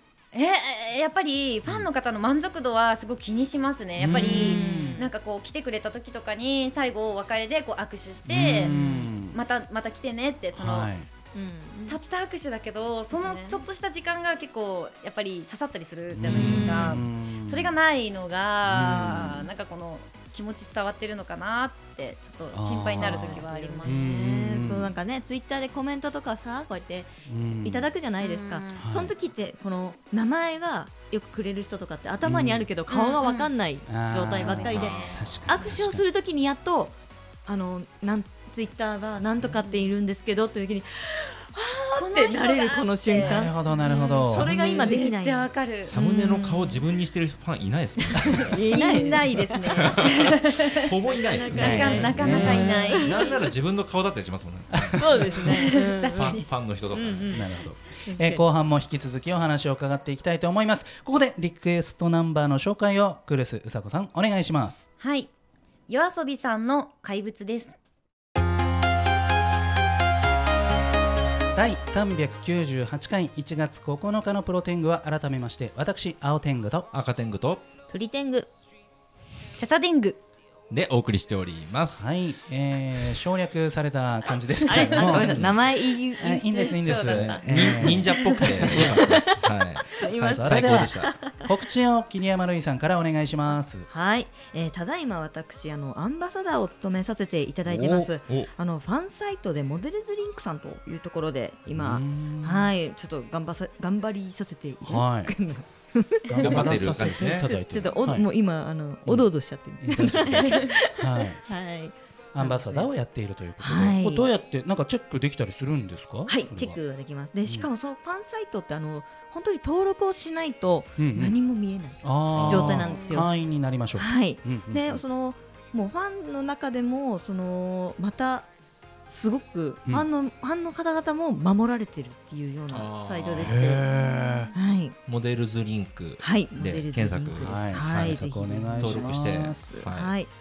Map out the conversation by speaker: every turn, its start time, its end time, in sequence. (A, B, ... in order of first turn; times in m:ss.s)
0:00.3-0:08.7 A
0:04.0-0:05.0 B
0:04.1-0:05.1 C
0:08.3-0:09.4 B
0:08.6-0:09.1 C
0:09.3-0:10.9 A
0:10.6-0:11.1 B
0:11.3-0:12.0 C
0:11.9-0:24.2 A
0:13.1-0:13.6 C
0:16.1-0:17.7 B
0:16.3-0:17.0 C
0:16.3-0:16.7 D
0:18.6-0:19.5 B
0:22.5-0:24.9 B
0:22.9-0:46.8 C
0:27.2-0:27.9 B
0:28.2-0:28.9 A
0:28.8-0:29.1 B
0:32.2-0:32.7 B
0:32.9-0:33.5 A
0:33.9-0:36.0 B
0:34.4-0:35.2 A
0:34.5-0:35.8 D
0:39.6-0:39.9 A
0:42.0-0:45.9 A
0:43.1-0:44.5 B
0:45.8-0:48.8 D
0:48.1-0:50.1 C
0:48.7-0:50.9 A
0:49.8-0:57.4 D
0:51.1-0:53.4 C
0:51.5-0:52.8 B
0:51.5-0:53.5 A
0:54.7-0:55.3 B
0:54.9-0:57.5 C
0:55.4-0:56.4 A
0:57.3-1:04.8 B
0:58.0-0:58.4 C
1:05.0-1:05.3 A
1:05.9-1:07.8 A
1:11.5-1:16.9 B
1:16.9-1:17.6 D
1:17.9-1:18.5 C
1:19.6-1:20.2 A
1:20.7-1:22.0 D
1:22.0-1:25.6 B
1:24.7-1:29.4 C
1:25.1-1:25.6 D
1:26.2-1:29.3 B
1:26.8-1:27.4 A
1:26.9-1:31.1 D
1:30.0-1:31.4 C
1:30.2-1:33.9 B
1:33.9-1:52.9 C
1:37.6-1:38.1 B
1:41.7-1:42.7 B
1:44.8-1:45.3 B
1:46.3-1:48.3 B
1:46.4-1:47.5 D
1:49.0-1:49.3 B
1:49.8-1:51.4 B
1:50.4-1:50.7 A
1:52.3-1:56.8 B
1:53.6-1:54.3 C
1:56.3-2:03.3 C
2:01.0-2:01.4 B
2:02.0-2:05.0 B
2:02.4-2:03.0 D
2:03.9-2:08.5 C
2:09.1-2:13.9 C
2:12.7-2:13.8 D
2:13.4-2:14.5 B
2:14.0-2:14.5 A
2:14.5-2:15.0 C
2:15.1-2:18.2 D
2:16.2-2:20.3 C
2:17.4-2:19.6 B
2:18.8-2:20.1 D